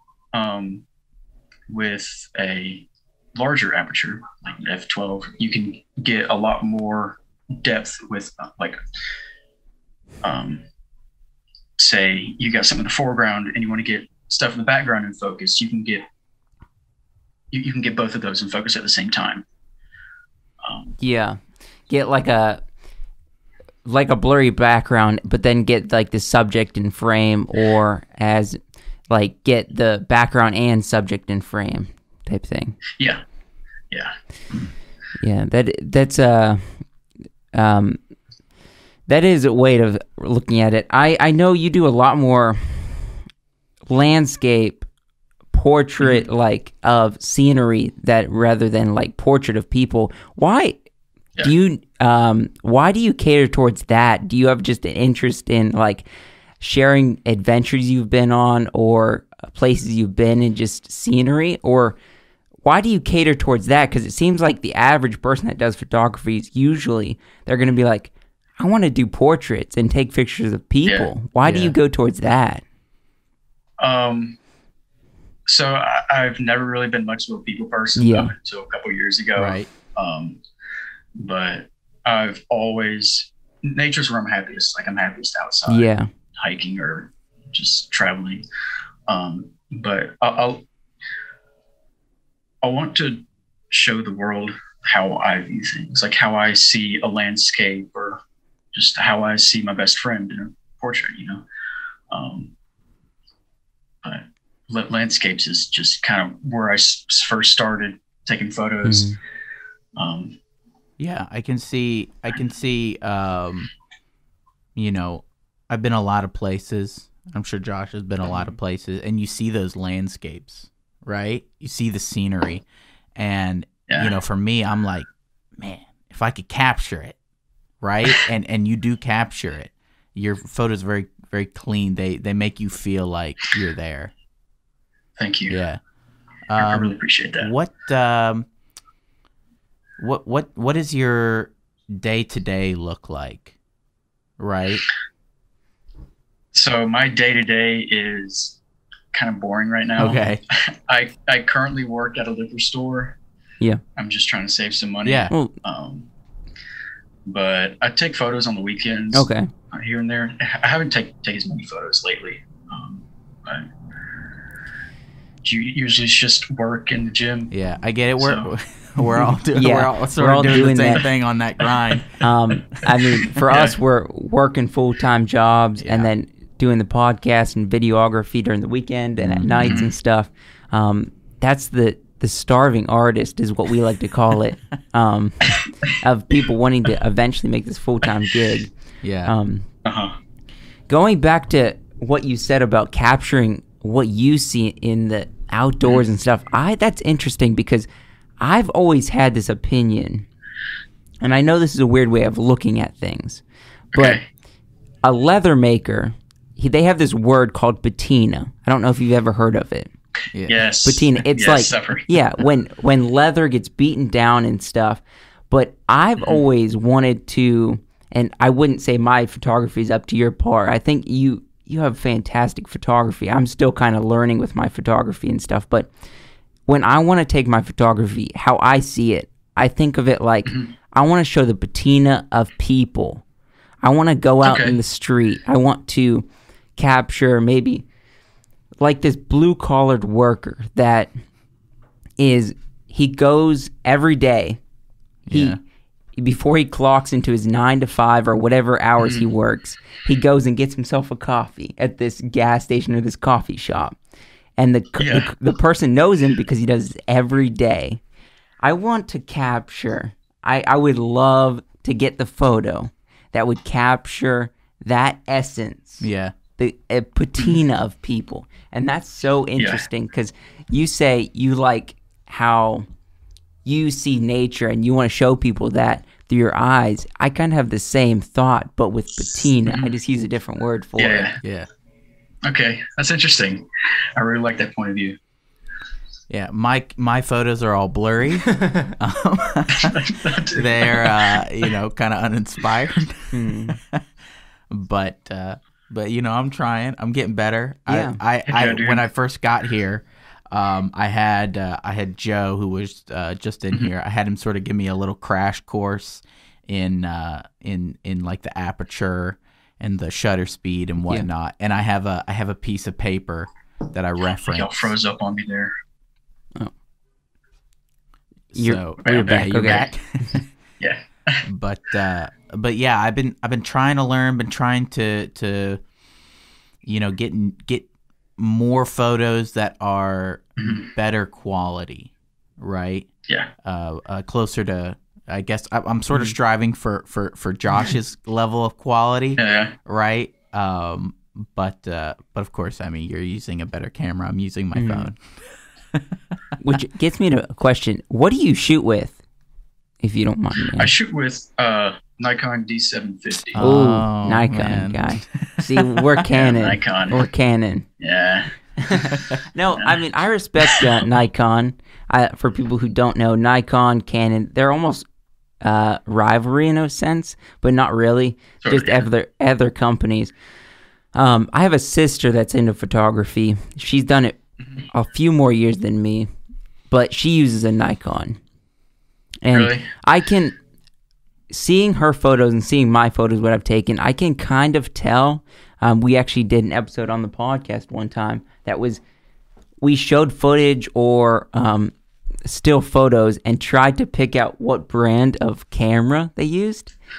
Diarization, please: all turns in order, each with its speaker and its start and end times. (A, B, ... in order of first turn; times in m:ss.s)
0:00.3-0:00.8 A
0:01.7-0:08.8 A
0:10.2-0:10.6 A
0:11.8-0:16.0 A
0:17.5-0:19.4 A
0:20.6-0:21.0 A
0:21.0-0:22.6 B
0:23.8-0:32.8 B
0:33.9-0:34.7 A
0:35.2-0:36.8 B
0:37.5-0:38.0 B
0:39.1-0:43.2 B
0:43.9-0:44.9 B
0:45.5-0:50.8 B
0:51.4-0:56.1 B
0:56.6-1:02.0 B
1:02.6-1:12.6 B
1:10.8-1:11.1 A
1:11.4-1:11.7 C
1:13.8-1:14.4 A
1:15.5-1:20.4 A
1:18.0-1:18.3 B
1:19.4-1:19.7 C
1:21.2-1:28.4 A
1:25.7-1:26.1 B
1:29.1-1:30.6 A
1:32.6-1:38.2 A
1:38.7-1:41.4 A
1:42.1-1:42.5 A
1:44.0-1:49.1 A
1:48.8-1:49.2 B
1:50.0-1:50.4 A
1:51.0-1:53.7 C
1:54.8-2:02.6 C
2:03.2-2:05.1 C
2:03.9-2:04.1 A
2:05.6-2:07.2 C
2:07.8-2:14.1 C
2:15.2-2:15.6 A
2:15.5-2:15.8 C
2:16.5-2:18.5 C
2:16.6-2:17.5 A
2:20.0-2:23.5 C
2:24.4-2:24.8 C
2:26.5-2:28.6 A
2:29.1-2:33.2 A
2:30.0-2:30.4 C
2:34.0-2:36.1 A
2:35.0-2:35.3 C
2:37.2-2:43.7 A
2:39.1-2:39.5 B
2:45.4-2:47.5 A
2:47.5-2:52.1 C
2:48.2-2:48.5 A
2:49.5-2:51.0 B
2:52.2-3:08.7 B
2:53.2-2:53.8 A
2:55.8-2:56.1 C
2:59.2-2:59.8 C
2:59.7-2:59.9 A
3:09.0-3:09.3 C
3:09.2-3:09.7 B
3:09.8-3:10.1 A
3:10.9-3:17.9 B
3:18.4-3:20.2 B
3:21.2-3:23.4 B
3:23.9-3:24.2 B
3:23.9-3:24.2 A
3:25.0-3:29.9 B
3:30.3-3:30.6 C
3:30.5-3:32.2 A
3:30.8-3:45.9 B
3:46.7-3:53.2 B
3:50.4-3:50.7 A
3:53.8-3:57.8 B
3:54.4-3:54.8 A
3:58.8-4:01.1 B
4:02.2-4:04.6 B
4:05.2-4:05.6 C
4:05.3-4:05.6 B
4:06.2-4:14.0 B
4:09.0-4:09.3 A
4:14.6-4:18.0 B
4:15.0-4:15.3 A
4:18.6-4:26.0 B
4:26.0-4:26.3 C
4:26.6-4:32.8 B
4:29.6-4:29.8 A
4:33.6-4:41.3 B
4:39.6-4:39.9 A
4:41.0-4:41.4 A
4:41.4-4:41.7 C
4:42.4-4:45.2 A
4:46.3-4:54.0 C
4:49.7-4:51.4 A
4:53.3-4:53.8 B
4:54.7-5:14.9 C
4:57.9-4:58.2 B
4:58.4-4:59.0 A
5:14.5-5:15.7 A
5:18.5-5:20.5 C
5:18.5-5:19.8 B
5:19.0-5:19.9 A
5:20.8-5:21.4 A
5:21.4-5:25.8 C
5:26.8-5:33.1 C
5:30.6-5:30.9 A
5:33.6-5:45.2 C
5:39.4-5:39.7 A
5:44.7-5:45.1 B
5:46.6-5:49.2 B
5:50.0-5:50.9 B
5:50.8-5:53.6 A
5:53.5-5:55.6 C
5:53.6-5:57.9 B
5:56.3-5:57.2 A
5:58.0-5:58.5 A
5:58.8-6:05.0 B
6:00.6-6:00.9 A
6:05.6-6:10.3 B
6:08.6-6:09.1 A
6:11.1-6:14.4 B
6:14.9-6:16.3 B
6:16.9-6:18.4 B
6:19.4-6:20.5 B
6:19.5-6:19.9 A
6:21.5-6:29.0 B
6:29.8-6:31.9 B
6:32.4-6:36.9 B